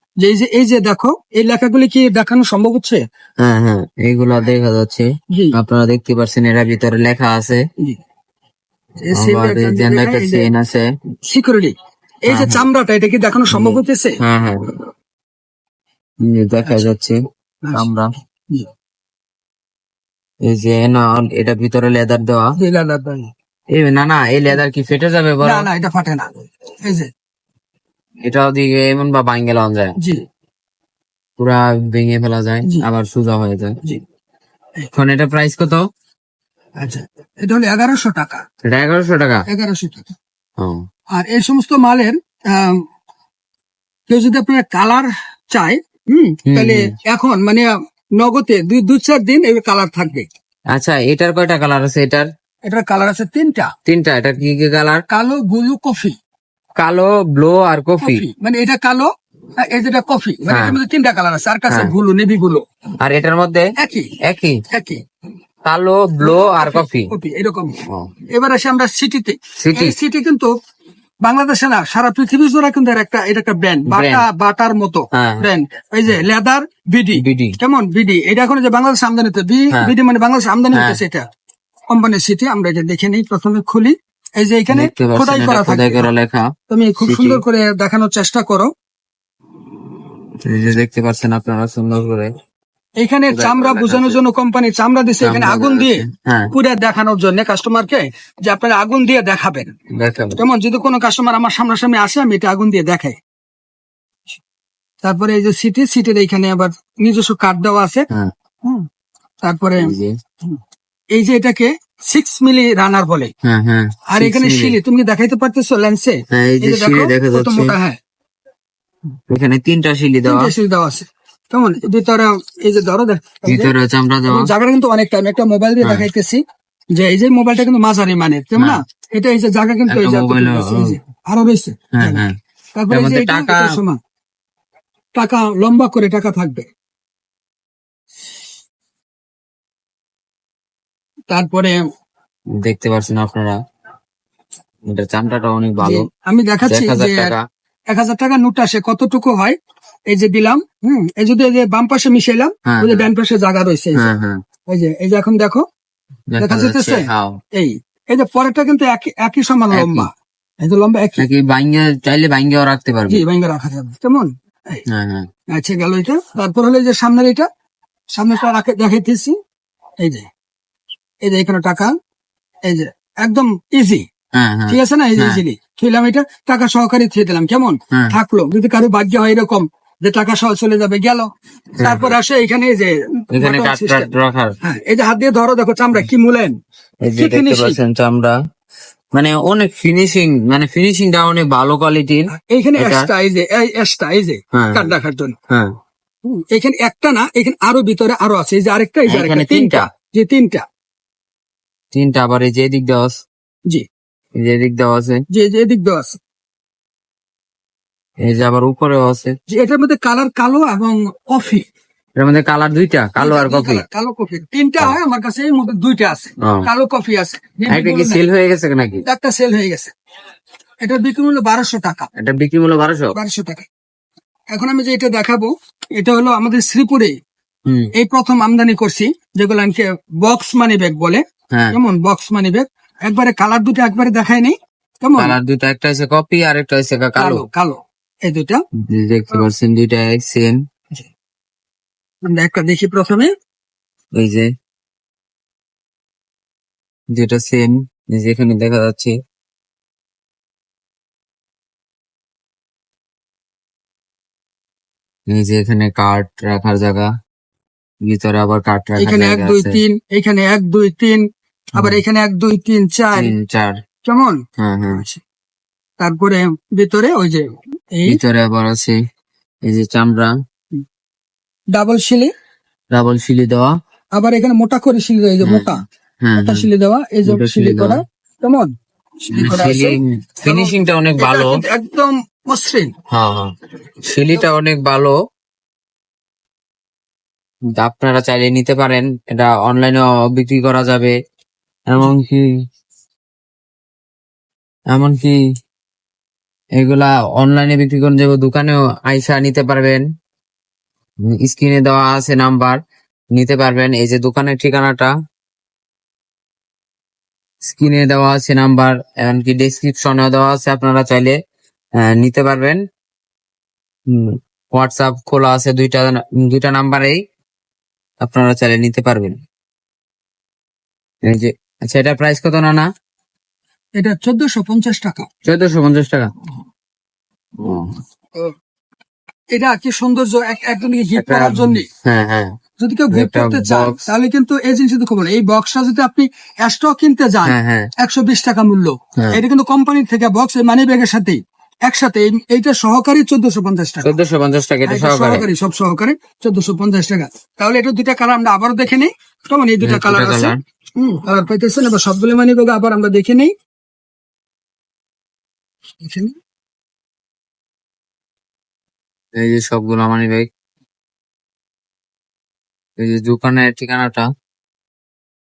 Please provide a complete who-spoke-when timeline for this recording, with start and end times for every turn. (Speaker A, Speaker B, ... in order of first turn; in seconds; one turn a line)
Speaker A: 0.2-3.0
Speaker B: 3.4-7.7
Speaker A: 9.1-10.5
Speaker B: 9.1-10.9
Speaker A: 11.3-11.7
Speaker A: 12.3-14.1
Speaker B: 12.3-12.6
Speaker B: 13.5-14.8
Speaker B: 16.2-17.2
Speaker B: 17.7-18.1
Speaker B: 20.4-22.6
Speaker A: 22.6-23.3
Speaker B: 23.7-25.7
Speaker A: 25.4-26.3
Speaker A: 26.9-27.1
Speaker B: 28.2-29.9
Speaker B: 31.4-33.8
Speaker B: 34.9-35.9
Speaker A: 36.8-38.4
Speaker B: 38.6-39.5
Speaker A: 39.5-40.1
Speaker B: 40.6-40.9
Speaker A: 41.1-42.8
Speaker A: 44.1-50.3
Speaker B: 46.5-46.9
Speaker B: 50.7-52.3
Speaker A: 52.7-53.7
Speaker B: 53.9-55.0
Speaker A: 55.1-56.2
Speaker B: 56.8-58.2
Speaker A: 58.0-59.1
Speaker A: 59.6-62.6
Speaker B: 60.5-60.8
Speaker B: 63.0-63.7
Speaker A: 63.8-64.2
Speaker B: 64.2-64.6
Speaker A: 64.7-65.0
Speaker B: 65.7-67.1
Speaker A: 66.2-67.8
Speaker B: 67.9-68.1
Speaker A: 68.3-70.5
Speaker B: 69.6-70.0
Speaker A: 71.2-81.2
Speaker B: 73.9-74.2
Speaker B: 75.1-75.5
Speaker B: 77.2-77.6
Speaker B: 80.7-81.0
Speaker A: 81.9-86.1
Speaker B: 84.7-87.4
Speaker A: 86.7-88.7
Speaker B: 90.4-92.3
Speaker A: 93.0-99.8
Speaker B: 93.3-94.2
Speaker B: 95.2-96.5
Speaker B: 100.0-100.4
Speaker A: 100.4-103.2
Speaker A: 105.0-108.0
Speaker A: 109.4-109.9
Speaker B: 109.8-110.2
Speaker A: 111.1-113.3
Speaker B: 113.4-114.8
Speaker A: 114.1-118.0
Speaker B: 116.3-117.8
Speaker B: 119.3-120.5
Speaker A: 120.3-123.7
Speaker B: 123.5-124.5
Speaker A: 124.3-126.4
Speaker A: 127.0-134.0
Speaker B: 129.9-131.0
Speaker B: 131.9-132.3
Speaker B: 132.9-133.7
Speaker A: 135.2-136.7
Speaker A: 141.3-141.8
Speaker B: 142.6-143.6
Speaker B: 144.9-146.1
Speaker A: 145.8-147.3
Speaker B: 146.7-147.4
Speaker A: 147.9-149.6
Speaker A: 150.1-154.1
Speaker B: 152.7-153.1
Speaker B: 154.0-154.4
Speaker A: 154.7-155.6
Speaker B: 156.3-157.4
Speaker A: 156.4-161.2
Speaker B: 159.7-160.1
Speaker B: 161.2-163.2
Speaker A: 163.1-164.8
Speaker B: 164.9-165.3
Speaker A: 165.5-167.5
Speaker A: 168.1-169.4
Speaker A: 170.0-170.3
Speaker A: 171.2-171.9
Speaker A: 172.7-174.1
Speaker B: 174.3-175.4
Speaker A: 174.7-181.3
Speaker B: 181.8-182.1
Speaker A: 181.8-184.1
Speaker B: 183.3-184.6
Speaker A: 184.6-186.6
Speaker B: 187.0-188.4
Speaker A: 187.2-187.8
Speaker B: 189.1-193.1
Speaker A: 192.3-195.3
Speaker B: 194.5-194.9
Speaker A: 196.3-200.6
Speaker B: 199.1-199.9
Speaker B: 201.9-203.2
Speaker B: 204.4-205.2
Speaker A: 205.3-206.2
Speaker B: 208.2-209.3
Speaker A: 209.5-211.7
Speaker B: 212.2-213.8
Speaker A: 213.2-218.2
Speaker B: 216.4-216.7
Speaker B: 217.7-219.0
Speaker A: 219.1-219.9
Speaker A: 220.8-222.1
Speaker B: 222.2-223.2
Speaker A: 223.2-223.7
Speaker A: 224.5-227.2
Speaker A: 227.9-235.4
Speaker B: 235.2-237.4
Speaker A: 237.2-238.6
Speaker B: 238.9-240.6
Speaker A: 242.2-243.3
Speaker B: 244.2-244.5
Speaker B: 247.1-249.2
Speaker B: 255.3-257.1
Speaker B: 258.0-259.8
Speaker A: 259.0-263.3
Speaker B: 261.8-262.0
Speaker B: 263.1-263.8
Speaker A: 264.0-264.4
Speaker B: 264.6-265.0
Speaker A: 264.9-265.2
Speaker A: 266.0-268.2
Speaker B: 268.1-269.0
Speaker B: 269.7-270.3
Speaker A: 271.7-272.3
Speaker B: 272.9-273.7
Speaker A: 274.1-275.8
Speaker B: 275.4-276.7
Speaker A: 276.4-282.9
Speaker B: 277.3-278.0
Speaker B: 279.4-281.6
Speaker B: 283.1-283.5
Speaker B: 284.0-285.1
Speaker B: 287.8-291.1
Speaker B: 291.9-292.4
Speaker B: 294.9-295.4
Speaker B: 296.8-300.0
Speaker B: 301.4-302.8
Speaker B: 303.3-305.1
Speaker B: 307.6-311.4
Speaker B: 312.0-312.8
Speaker B: 314.1-317.2
Speaker B: 318.2-319.4
Speaker B: 321.2-322.9
Speaker A: 324.0-325.3
Speaker B: 325.4-326.3
Speaker B: 327.6-328.0
Speaker A: 329.5-331.9
Speaker B: 331.2-332.6
Speaker A: 332.8-344.2
Speaker B: 333.1-334.1
Speaker B: 337.4-337.9
Speaker B: 344.0-345.5
Speaker A: 344.9-353.5
Speaker B: 349.8-350.6
Speaker A: 356.0-356.3
Speaker B: 359.4-360.5
Speaker B: 363.0-364.3